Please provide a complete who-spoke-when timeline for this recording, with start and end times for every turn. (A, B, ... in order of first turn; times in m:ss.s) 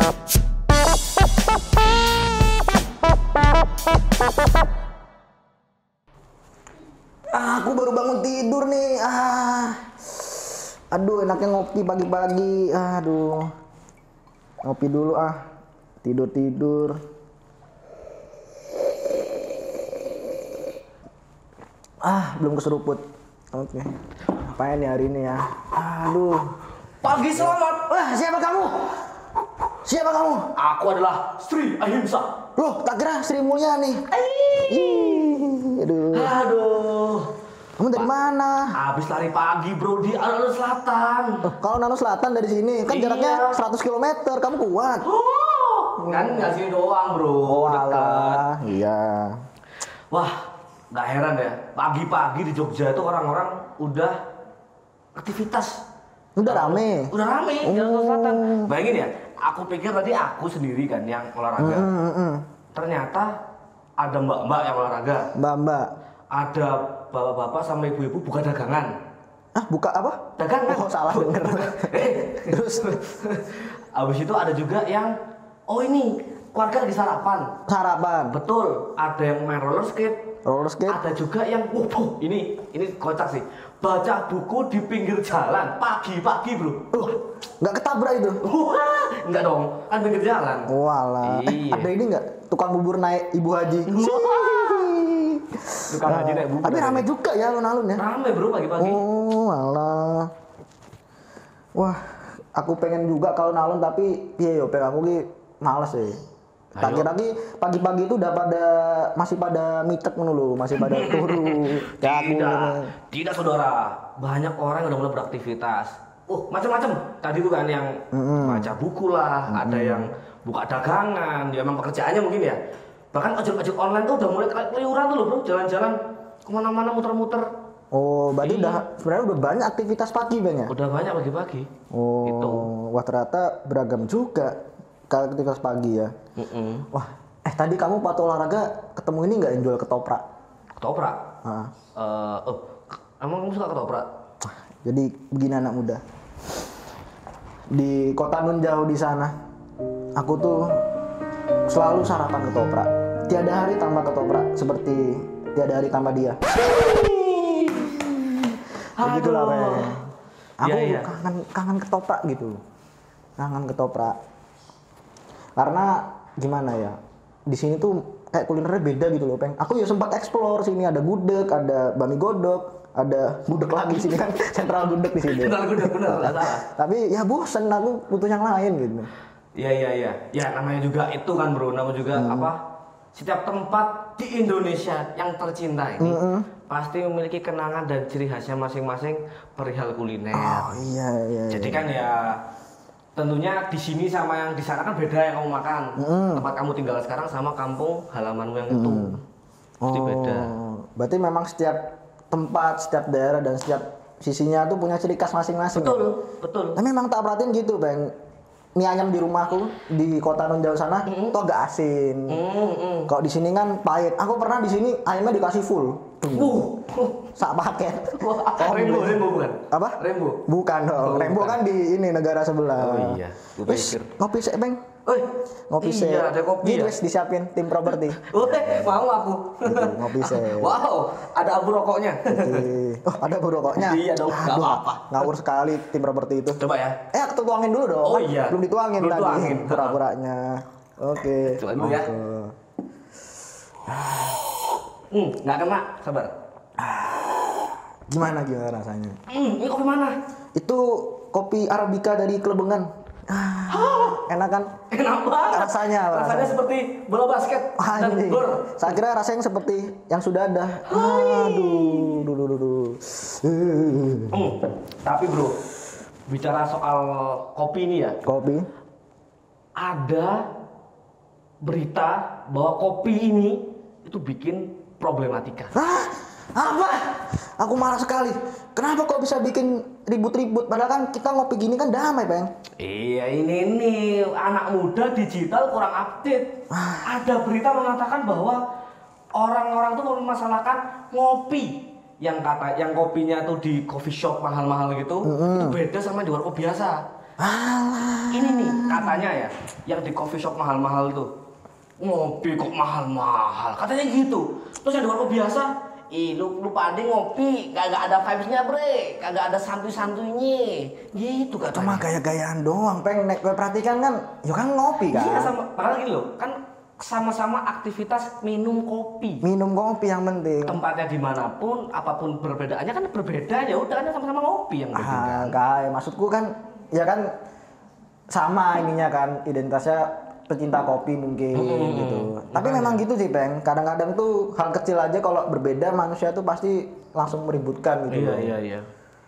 0:07.3-0:13.5 A
0:14.6-0:15.4 A
0:16.0-0:17.0 A
0:22.0-0:26.5 A
0:27.0-0:27.9 B
0:27.2-0:29.0 A
0:29.8-0:30.5 A
0:30.6-0:32.3 B
0:32.6-0:34.1 A
0:34.1-0:35.2 B
0:34.6-0:36.4 A
0:36.1-0:37.3 B
0:37.8-0:38.7 A
0:38.7-0:41.5 B
0:41.4-0:45.0 A
0:42.9-0:43.6 B
0:45.0-0:48.4 B
0:46.0-0:46.6 A
0:47.4-0:49.4 A
0:50.1-0:50.4 B
0:50.9-0:54.2 B
0:55.2-0:55.8 B
0:56.4-0:57.1 A
0:56.5-1:01.9 B
0:57.6-0:58.7 A
1:01.6-1:02.4 A
1:02.8-1:03.3 B
1:04.0-1:05.3 B
1:05.4-1:05.9 A
1:06.3-1:08.9 B
1:09.6-1:13.0 A
1:10.4-1:15.1 B
1:15.7-1:17.5 B
1:17.7-1:18.4 A
1:18.3-1:20.2 B
1:20.4-1:21.0 A
1:20.9-1:26.9 B
1:26.9-1:28.4 A
1:28.4-1:31.9 B
1:30.7-1:38.0 A
1:33.9-1:34.9 B
1:35.9-1:37.1 B
1:38.0-1:39.0 B
1:38.8-1:40.3 A
1:42.5-1:46.2 A
1:46.8-1:47.1 B
1:46.8-1:52.9 A
1:50.8-2:02.6 B
1:58.1-1:58.7 A
1:59.5-2:00.1 A
2:03.1-2:07.5 B
2:07.9-2:10.7 A
2:08.4-2:08.8 B
2:10.7-2:11.7 B
2:11.9-2:14.6 A
2:12.2-2:12.7 B
2:15.1-2:16.1 A
2:16.4-2:16.9 B
2:16.9-2:20.2 A
2:20.8-2:21.2 B
2:21.4-2:21.7 A
2:22.0-2:24.1 B
2:24.4-2:26.0 A
2:27.7-2:29.3 A
2:30.2-2:30.8 A
2:31.7-2:36.4 A
2:36.7-2:39.9 B
2:39.0-2:40.1 A
2:40.6-2:41.1 B
2:40.6-2:42.6 A
2:43.4-2:44.2 A
2:45.6-2:59.1 A
2:54.0-2:56.6 B
2:59.6-3:02.6 B
3:02.1-3:02.5 A
3:03.1-3:10.8 B
3:06.0-3:06.5 A
3:10.3-3:11.9 A
3:11.5-3:12.4 B
3:13.2-3:19.2 B
3:16.0-3:16.5 A
3:18.7-3:19.2 A
3:19.8-3:26.1 A
3:19.9-3:20.5 B
3:25.7-3:26.8 B
3:26.8-3:28.1 A
3:28.8-3:32.4 A
3:31.1-3:31.4 B
3:32.3-3:33.1 B
3:33.1-3:36.7 A
3:36.3-3:37.3 B
3:37.4-3:44.8 A
3:38.2-3:40.4 B
3:41.0-3:41.6 B
3:42.8-3:44.1 B
3:45.1-3:47.0 B
3:45.7-3:48.7 A
3:48.2-3:52.7 B
3:49.7-3:50.8 A
3:52.3-3:56.6 A
3:53.8-3:55.3 B
3:56.6-3:57.0 B
3:57.1-4:02.5 A
3:58.0-4:00.0 B
4:01.4-4:02.1 B
4:03.9-4:04.4 A
4:05.1-4:06.3 B
4:06.8-4:09.2 A
4:09.3-4:10.2 B
4:10.6-4:14.7 A
4:13.7-4:14.2 B
4:14.9-4:19.0 B
4:15.5-4:16.6 A
4:17.8-4:24.5 A
4:20.9-4:22.3 B
4:24.3-4:25.6 B
4:26.3-4:28.2 B
4:28.2-4:28.7 A
4:29.8-4:30.4 B
4:31.6-4:35.7 B
4:35.7-4:42.5 A
4:42.8-4:46.5 B
4:46.7-4:47.1 A
4:47.0-4:48.6 B
4:49.4-4:57.0 B
4:55.2-4:55.8 A
4:57.4-4:59.3 A
4:58.3-5:01.3 B
5:02.0-5:12.1 B
5:11.7-5:15.5 A
5:15.0-5:19.4 B
5:19.4-5:20.8 A
5:20.6-5:25.6 B
5:24.9-5:27.3 A
5:28.3-5:38.5 A
5:31.5-5:33.0 B
5:38.1-5:38.9 B